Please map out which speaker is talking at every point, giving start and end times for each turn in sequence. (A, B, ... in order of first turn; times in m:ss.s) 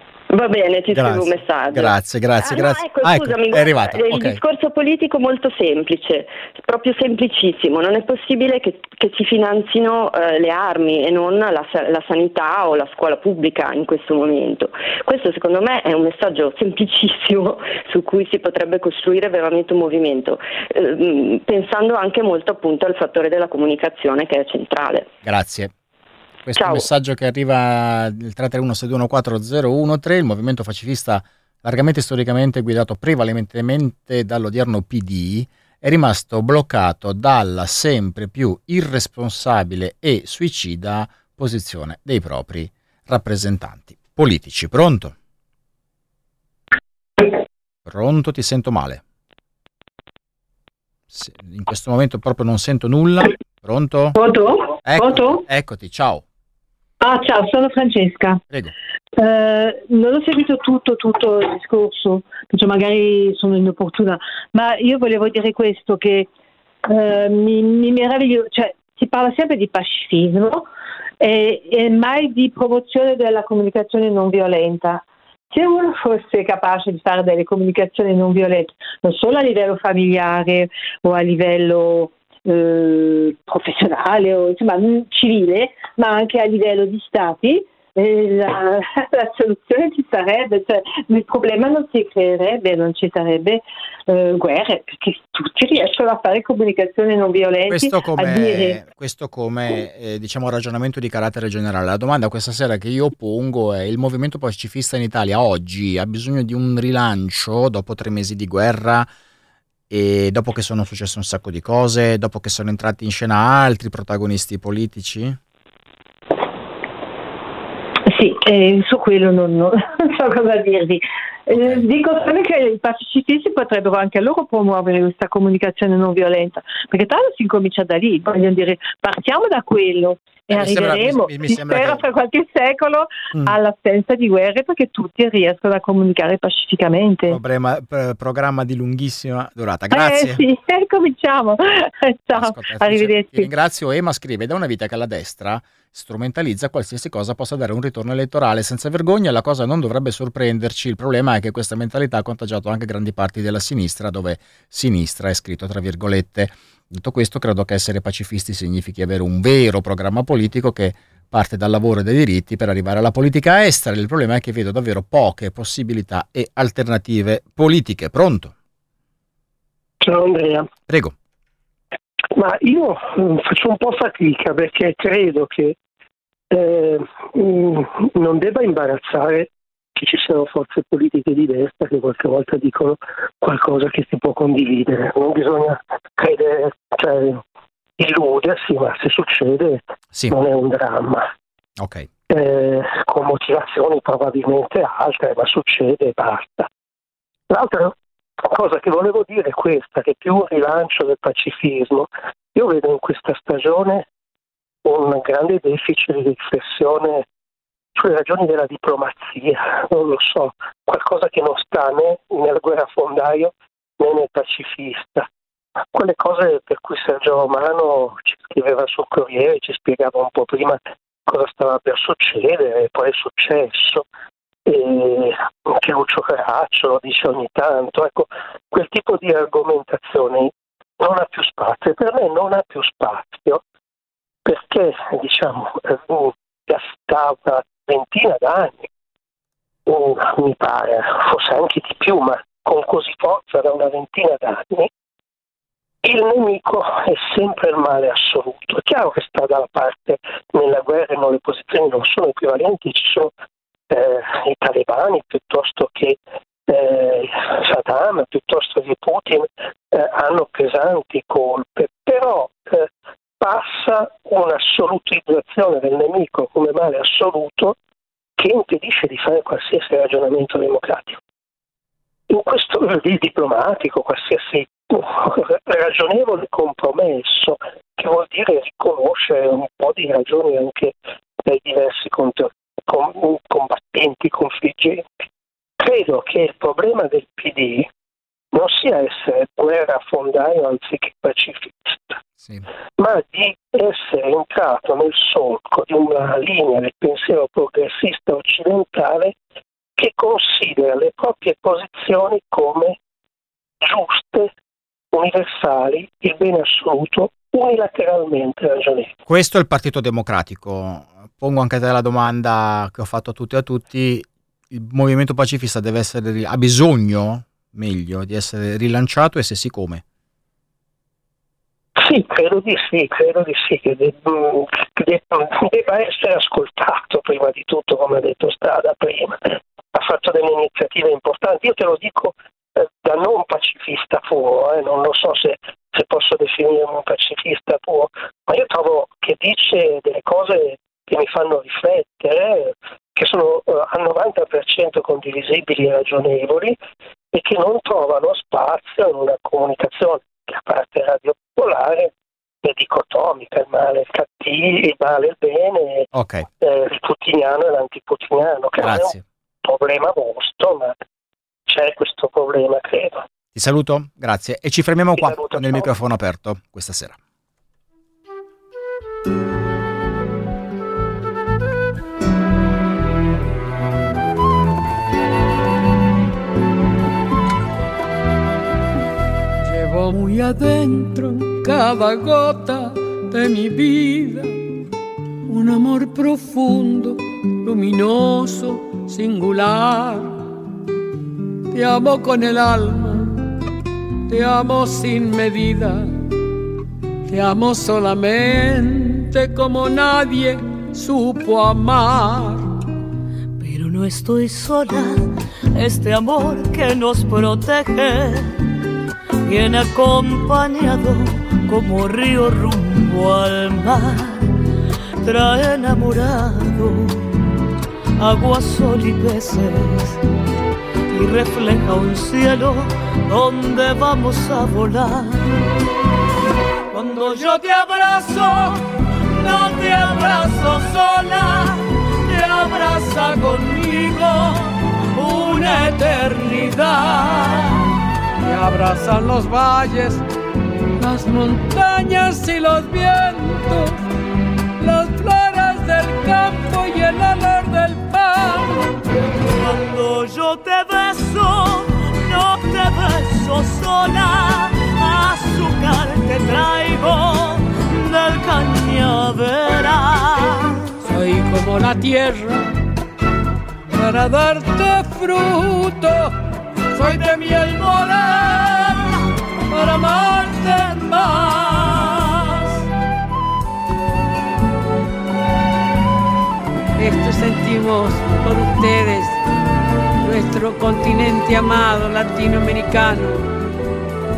0:00.3-0:25.1 A
0:00.9-0:04.4 B
0:25.2-0:25.7 B
0:26.4-0:45.1 B
0:26.6-0:26.9 A
0:47.8-0:49.0 B
0:51.1-0:54.2 B
0:54.1-0:55.4 C
0:54.8-0:56.2 B
0:57.0-0:58.4 C
0:59.2-1:06.3 C
1:06.8-1:10.7 C
1:11.2-1:38.8 C
1:37.7-1:49.1 B
1:49.9-1:55.4 B
1:58.0-2:17.4 C
2:01.5-2:01.9 B
2:10.5-2:12.0 B
2:17.3-2:20.4 B
2:19.9-2:23.5 C
2:22.3-2:48.5 B
2:50.0-2:50.7 D
2:50.9-2:51.1 B
2:52.3-2:55.8 D
2:56.5-3:07.4 D
3:08.0-3:11.3 D
3:11.8-3:12.1 B
3:12.3-3:16.7 D
3:17.5-3:24.0 D
3:24.8-3:27.2 D
3:27.9-3:35.3 D
3:35.9-3:44.0 D
3:44.6-3:53.6 D
3:54.4-3:58.9 D
3:59.9-4:04.9 D
4:06.0-4:13.3 D
4:13.9-4:22.9 D
4:23.4-4:27.8 D
4:28.4-4:31.2 D
4:32.3-4:45.1 D
4:45.8-4:47.9 D
4:48.5-4:52.2 D
4:53.0-4:59.3 D
5:00.0-5:03.0 D
5:03.8-5:04.5 D
5:05.1-5:09.1 D
5:09.3-5:20.0 B
5:22.0-5:46.8 D
5:47.3-5:52.1 D
5:52.6-5:56.1 D
5:56.1-5:56.4 B
5:56.6-6:00.9 D
5:58.8-5:59.2 B
6:01.7-6:03.2 D
6:03.5-6:07.2 B
6:05.1-6:05.9 D
6:19.6-6:24.6 E
6:25.4-6:30.4 E
6:31.7-6:33.4 E
6:34.3-6:36.2 E
6:37.3-6:42.7 E
6:43.6-6:45.2 F
6:45.8-6:48.5 F
6:49.4-6:54.5 F
6:55.2-6:57.3 F
6:58.2-7:00.2 F
7:01.1-7:05.5 F
7:06.9-7:08.7 F
7:07.2-7:07.6 E
7:09.3-7:11.8 F
7:12.3-7:14.6 F
7:13.0-7:13.3 E
7:15.2-7:17.3 E
7:18.4-7:20.2 E
7:21.0-7:24.0 E
7:24.8-7:29.0 E
7:29.4-7:40.7 F
7:41.0-7:42.8 E
7:43.9-7:46.4 E
7:46.9-7:49.1 E
7:49.7-7:51.9 E
7:57.0-7:59.4 E
8:00.2-8:03.4 E